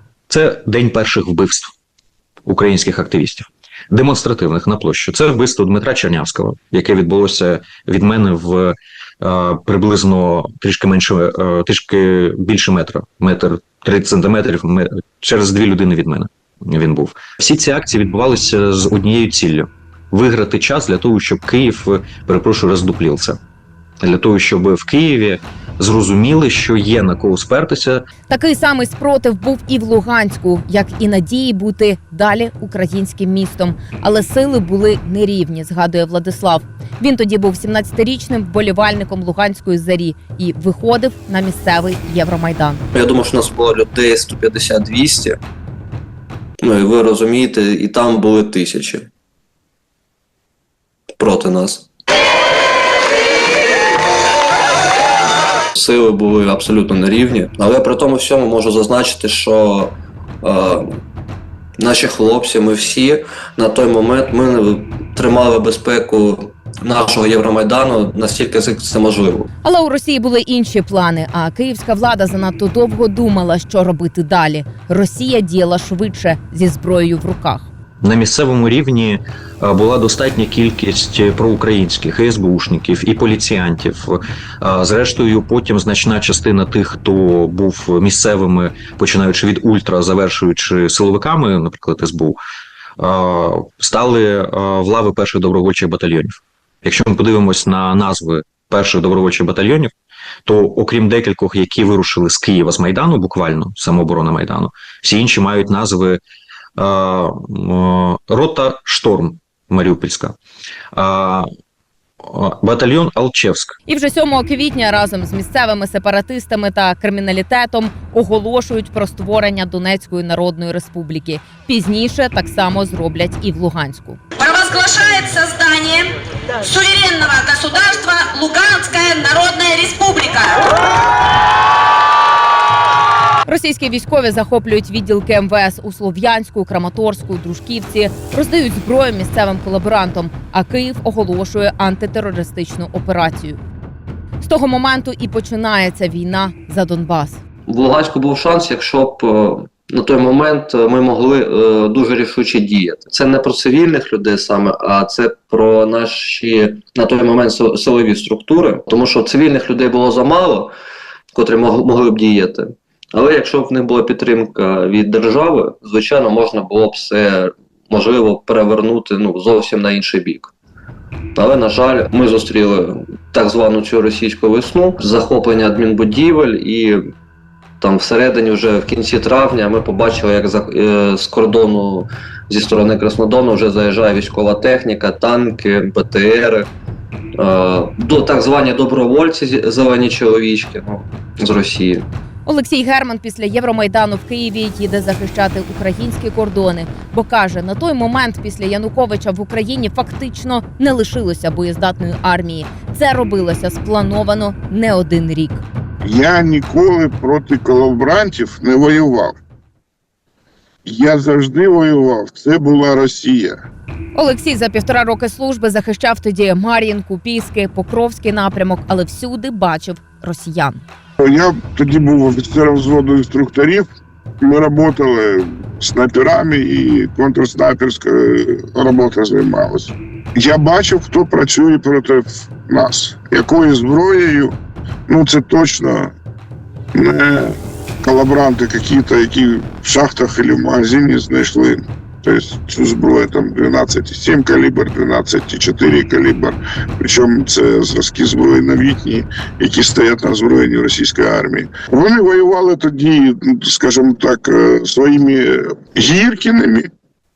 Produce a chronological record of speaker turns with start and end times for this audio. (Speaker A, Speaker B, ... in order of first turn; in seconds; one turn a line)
Speaker A: 0.3-1.7
Speaker A: 2.5-23.4
Speaker A: 24.0-28.1
Speaker B: 28.3-42.8
Speaker C: 42.9-45.4
Speaker C: 46.6-49.1
Speaker C: 51.2-51.9
Speaker C: 55.8-61.0
Speaker C: 61.8-69.5
Speaker B: 69.6-77.7
Speaker A: 78.0-92.4
Speaker A: 93.0-99.9
Speaker A: 100.5-106.2
Speaker A: 106.8-110.3
Speaker A: 110.9-111.5
Speaker A: 112.2-113.7
Speaker B: 113.9-124.2
Speaker D: 124.4-126.0
Speaker D: 126.6-130.6
Speaker B: 133.5-143.6
Speaker B: 144.4-147.4
Speaker C: 147.7-160.7
Speaker C: 161.3-170.5
Speaker C: 171.4-177.0
Speaker C: 177.8-186.7
Speaker C: 187.4-192.1
Speaker B: 192.5-205.6
Speaker E: 206.0-209.4
Speaker E: 210.9-213.6
Speaker B: 214.1-220.8
Speaker E: 221.2-223.9
Speaker E: 224.4-234.5
Speaker E: 235.1-236.1
Speaker E: 236.9-256.9